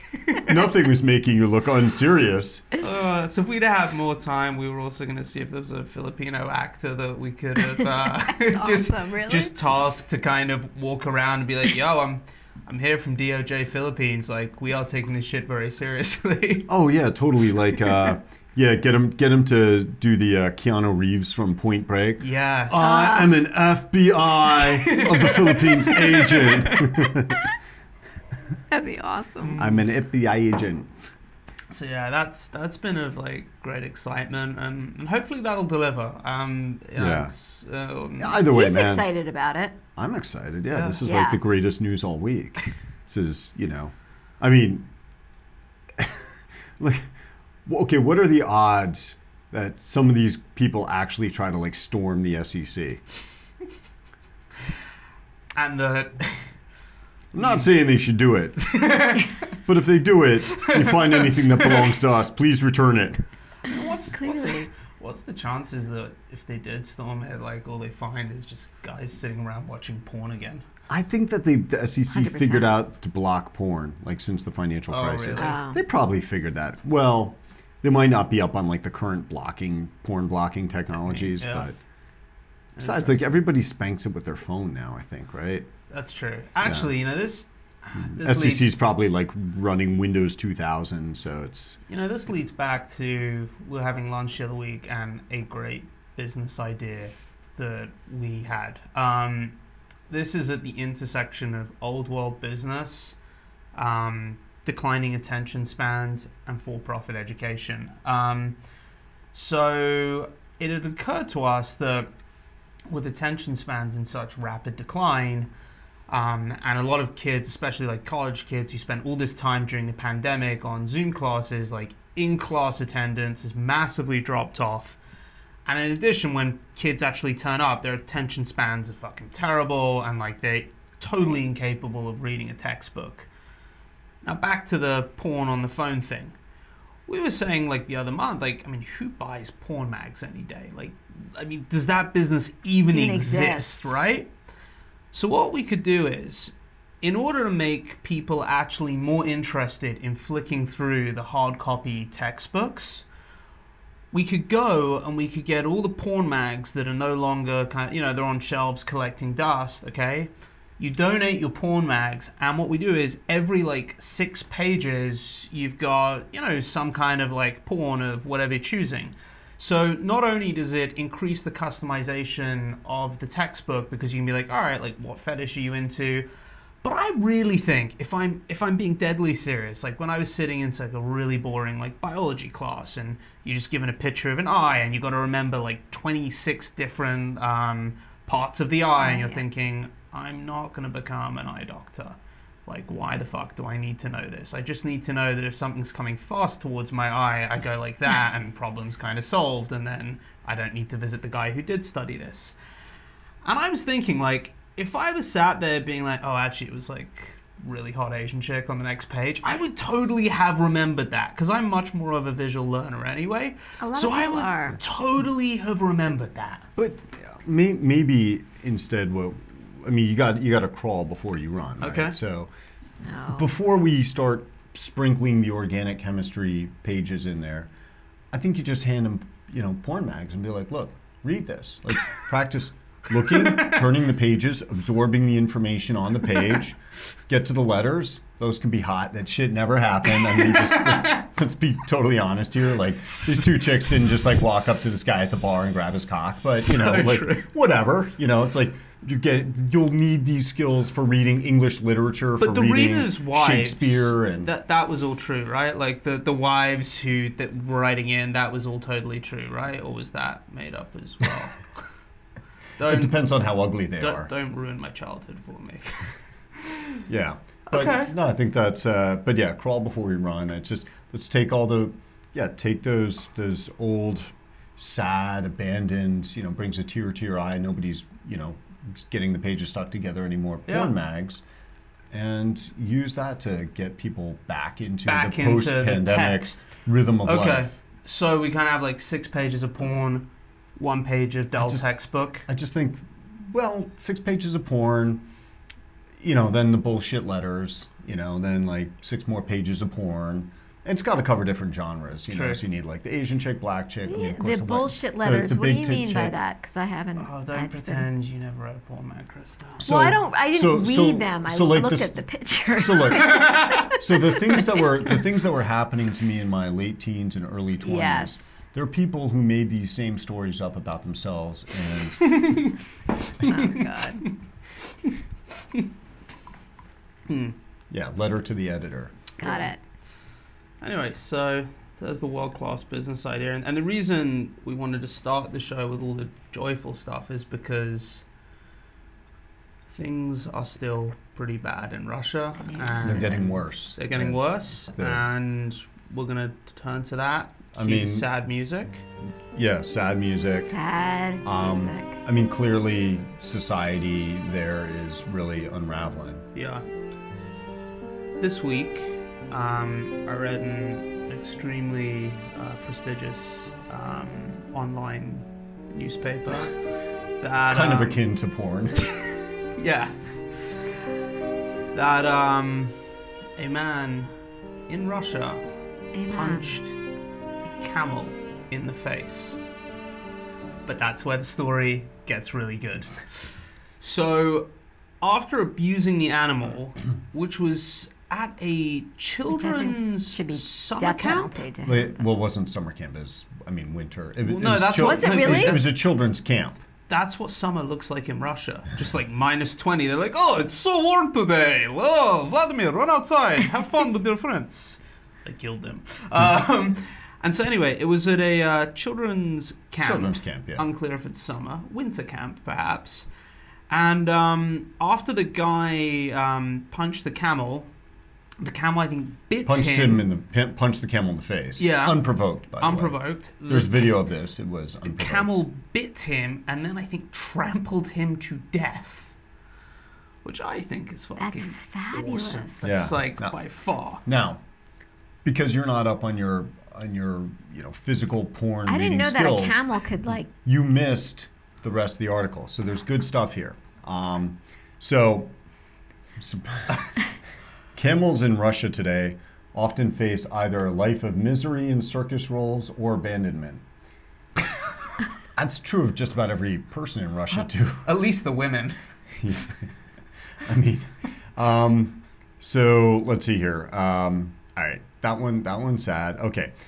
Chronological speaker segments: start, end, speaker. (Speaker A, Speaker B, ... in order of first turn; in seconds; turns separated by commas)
Speaker A: 0.3-2.7, Speaker B: 2.8-16.7, Speaker C: 8.2-9.5, Speaker A: 16.7-27.4, Speaker B: 22.2-22.9, Speaker C: 22.8-23.4, Speaker B: 24.5-27.1, Speaker C: 28.7-29.5, Speaker B: 29.4-29.8, Speaker A: 29.6-30.9, Speaker B: 31.7-38.4, Speaker A: 37.0-37.3, Speaker A: 38.2-39.1, Speaker C: 38.5-39.8, Speaker A: 40.0-44.9, Speaker B: 40.7-41.0, Speaker C: 41.0-41.4, Speaker A: 46.0-47.1, Speaker A: 47.6-53.0, Speaker B: 55.5-56.4, Speaker A: 57.3-58.8, Speaker B: 57.4-57.6, Speaker B: 58.6-59.3, Speaker A: 59.6-63.2, Speaker B: 60.5-61.9, Speaker B: 63.7-70.6, Speaker C: 64.1-64.7, Speaker A: 70.9-81.8, Speaker C: 72.1-72.8, Speaker B: 74.9-75.6, Speaker C: 75.4-75.8, Speaker B: 81.0-81.7, Speaker B: 82.8-83.4, Speaker A: 82.8-85.7, Speaker B: 85.9-88.7, Speaker A: 86.6-86.9, Speaker A: 88.1-91.8, Speaker B: 91.9-99.5, Speaker B: 100.1-103.2, Speaker B: 103.7-108.5, Speaker B: 109.3-112.1, Speaker B: 112.9-115.5, Speaker B: 116.1-125.0, Speaker B: 125.7-133.3, Speaker B: 134.2-136.3, Speaker B: 137.1-144.3, Speaker C: 142.9-144.0, Speaker B: 145.1-153.0, Speaker B: 154.1-176.3, Speaker B: 176.8-202.5, Speaker C: 189.0-189.4, Speaker B: 203.4-216.7, Speaker C: 213.8-214.8, Speaker A: 216.8-222.5, Speaker B: 221.8-222.2, Speaker C: 223.0-223.5, Speaker A: 223.3-227.7, Speaker A: 228.3-254.5, Speaker B: 233.3-233.9, Speaker B: 240.3-241.2, Speaker B: 243.1-243.6, Speaker B: 246.6-247.5, Speaker B: 252.4-261.7, Speaker B: 262.8-263.2, Speaker A: 262.8-264.3, Speaker B: 264.0-267.0, Speaker A: 267.1-281.4, Speaker B: 267.7-268.1, Speaker B: 280.7-280.9, Speaker A: 282.1-287.7, Speaker B: 285.1-286.7, Speaker B: 287.2-292.4, Speaker A: 291.5-291.9, Speaker A: 292.4-295.2, Speaker A: 296.2-306.4, Speaker B: 302.3-302.6, Speaker C: 304.1-308.1, Speaker B: 307.2-309.8, Speaker A: 309.8-312.2, Speaker C: 309.8-314.8, Speaker A: 312.7-322.4, Speaker B: 313.1-313.9, Speaker C: 317.8-318.6, Speaker B: 322.2-322.7, Speaker C: 323.4-324.2, Speaker B: 323.4-324.3, Speaker B: 327.3-327.5, Speaker A: 327.9-329.1, Speaker C: 329.4-329.8, Speaker B: 329.4-329.7, Speaker B: 330.8-338.2, Speaker B: 339.9-349.0, Speaker C: 342.6-343.3, Speaker A: 343.0-345.2, Speaker A: 347.7-348.3, Speaker A: 349.5-350.7, Speaker C: 350.5-352.2, Speaker A: 351.4-356.4, Speaker B: 356.5-356.8, Speaker B: 358.4-366.8, Speaker B: 367.4-368.2, Speaker A: 367.7-369.0, Speaker B: 369.0-370.9, Speaker B: 371.9-373.0, Speaker B: 373.6-374.3, Speaker B: 374.9-375.6, Speaker C: 376.1-376.8, Speaker B: 376.3-376.9, Speaker B: 377.8-379.6, Speaker B: 380.9-384.7, Speaker B: 385.2-391.6, Speaker C: 389.5-392.2, Speaker A: 391.8-396.8, Speaker B: 394.4-395.9, Speaker C: 395.0-395.8, Speaker B: 397.1-413.3, Speaker A: 410.0-410.8, Speaker B: 413.9-417.9, Speaker B: 418.6-420.2, Speaker A: 419.6-425.6, Speaker B: 421.8-424.1, Speaker B: 425.1-429.3, Speaker B: 430.4-434.2, Speaker C: 431.4-432.9, Speaker A: 432.8-433.6, Speaker A: 434.2-434.6, Speaker A: 435.4-445.5, Speaker C: 438.9-440.5, Speaker A: 446.4-447.1, Speaker A: 447.9-453.8, Speaker A: 455.6-458.1, Speaker B: 457.6-459.0, Speaker A: 459.4-459.9, Speaker A: 460.6-466.7